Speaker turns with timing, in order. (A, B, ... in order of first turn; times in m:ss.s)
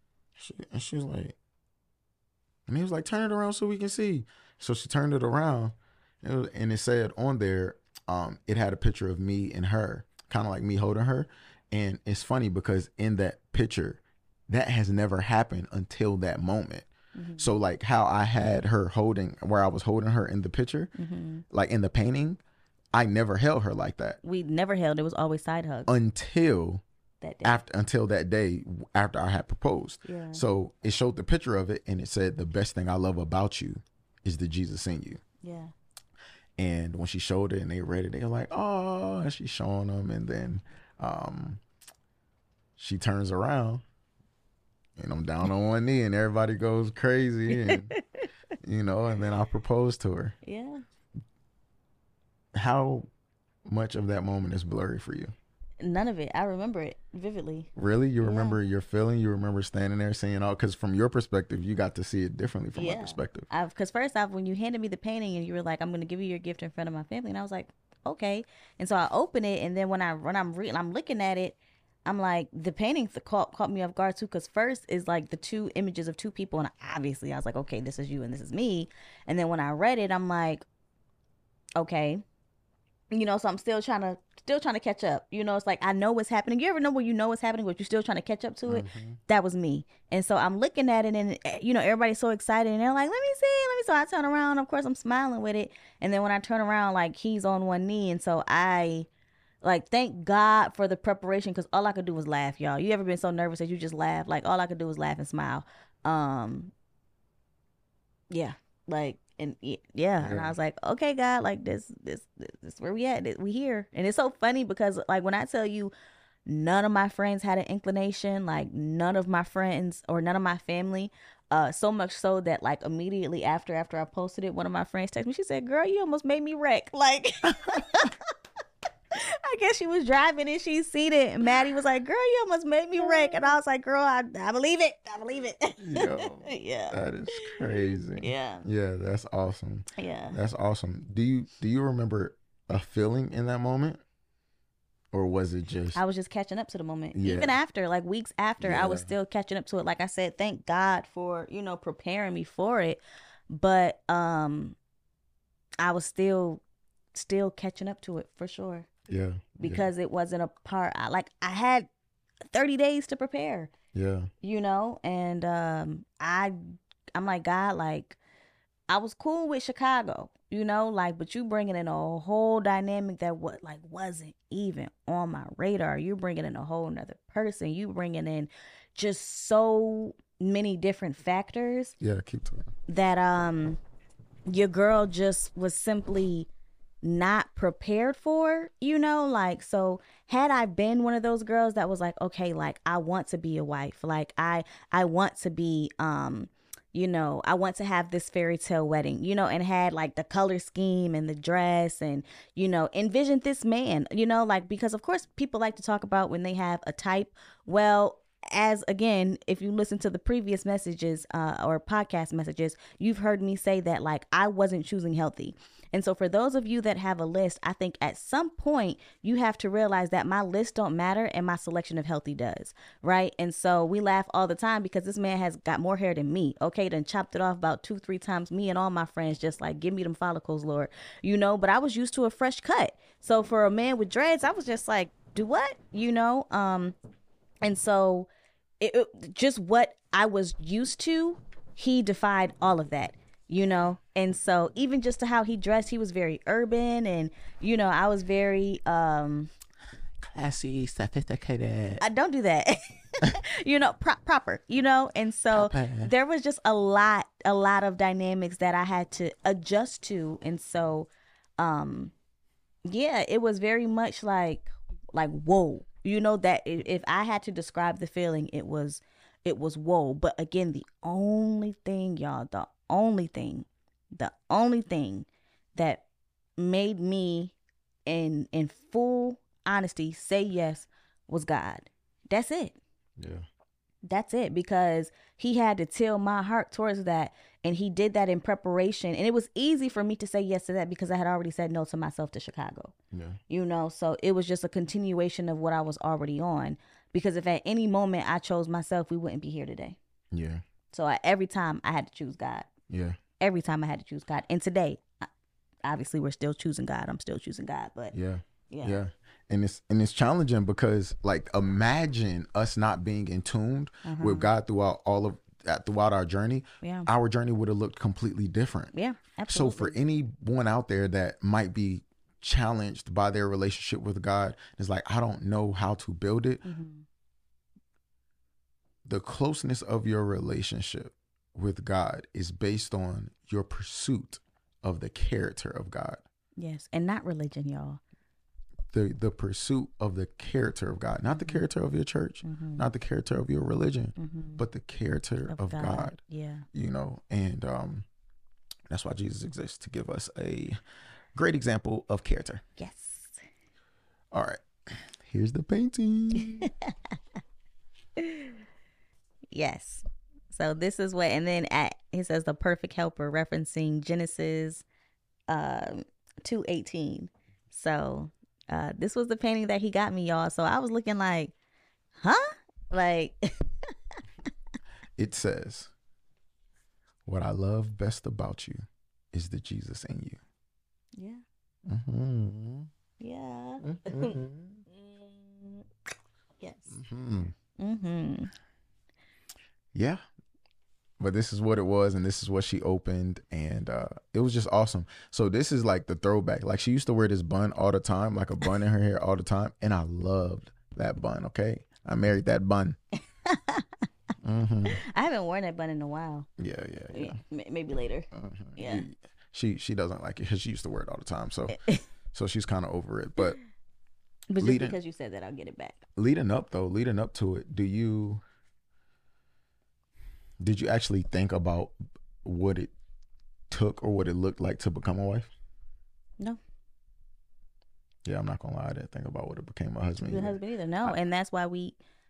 0:00.4-0:01.4 A
0:02.7-0:16.9 A
0:17.2-0:17.6 B
0:17.4-0:20.9 A
0:21.0-0:21.4 B
0:21.5-0:22.4 A
0:22.9-0:24.2 A
0:24.2-0:25.9 B
0:25.9-0:26.8 A
0:27.2-0:27.6 B
0:27.4-0:35.2 A
0:30.0-0:30.4 B
0:35.4-0:35.7 B
0:36.6-0:41.6 A
0:42.8-0:43.8 A
0:45.0-0:47.9 A
0:47.5-0:48.3 B
0:48.6-0:50.4 A
0:50.4-0:50.8 B
0:52.5-0:53.1 A
0:53.6-0:55.3 A
0:55.8-0:57.7 B
0:57.8-1:03.5 A
0:58.2-0:58.6 B
1:02.7-1:20.6 B
1:21.8-1:22.2 B
1:23.1-1:39.1 B
1:28.7-1:29.2 A
1:39.6-1:46.7 B
1:48.3-1:55.9 B
1:50.2-1:50.5 A
1:56.4-2:08.1 B
2:09.1-2:18.7 B
2:13.1-2:13.5 A
2:15.8-2:24.0 A
2:20.0-2:20.4 B
2:25.1-2:26.0 A
2:25.9-2:34.8 B
2:27.1-2:27.6 A
2:28.6-2:29.1 A
2:35.8-2:36.6 B
2:37.1-2:38.9 B
2:39.1-2:39.9 A
2:39.6-2:41.9 B
2:42.5-2:43.7 B
2:43.9-2:44.3 A
2:44.4-2:46.6 B
2:47.1-2:48.2 B
2:48.9-3:01.9 B
3:02.0-3:02.7 A
3:02.9-3:03.8 B
3:04.5-3:06.5 B
3:07.0-3:57.0 B
3:57.6-4:09.5 B
4:10.2-4:12.0 A
4:12.0-4:22.1 B
4:15.5-4:16.1 A
4:22.8-4:36.0 B
4:36.6-4:37.5 B
4:38.0-4:42.8 B
4:43.2-4:43.5 A
4:44.0-4:52.9 B
4:53.1-4:53.4 A
4:53.5-5:00.0 B
5:00.3-5:00.6 A
5:00.9-5:02.7 B
5:02.9-5:03.2 A
5:03.4-5:05.3 B
5:05.8-5:08.2 B
5:08.1-5:18.9 A
5:08.7-5:09.0 B
5:14.0-5:14.5 B
5:16.8-5:17.1 B
5:18.9-5:20.0 B
5:19.5-5:26.6 A
5:26.6-5:27.0 B
5:29.0-5:36.2 A
5:36.6-5:38.0 B
5:38.9-5:46.2 A
5:41.3-5:41.6 B
5:42.4-5:42.8 B
5:44.2-5:44.6 B
5:45.5-5:46.6 B
5:46.7-5:48.0 A
5:48.9-5:50.8 A
5:51.3-5:52.6 A
5:52.8-5:53.4 B
5:54.3-5:56.7 A
5:56.6-5:56.9 B
5:58.2-5:58.6 B
5:59.5-6:04.8 B
6:05.5-6:11.5 B
6:12.2-6:13.9 B
6:15.2-6:15.9 A
6:17.2-6:20.4 A
6:21.1-6:21.4 B
6:21.8-6:22.9 A
6:23.2-6:24.4 B
6:23.8-6:24.8 A
6:24.9-6:25.9 B
6:26.6-6:27.0 B
6:26.9-6:27.5 A
6:27.8-6:28.5 B
6:29.9-6:30.2 A
6:31.2-6:43.0 A
6:43.4-6:43.8 B
6:44.4-6:45.0 A
6:44.9-6:46.5 B
6:46.6-6:47.4 A
6:47.1-6:49.0 B
6:48.3-6:53.6 A
6:54.5-6:56.0 B
6:54.6-6:55.0 A
6:56.2-6:58.4 A
7:00.6-7:02.9 A
7:03.7-7:05.5 A
7:08.2-7:11.2 A
7:10.2-7:12.0 B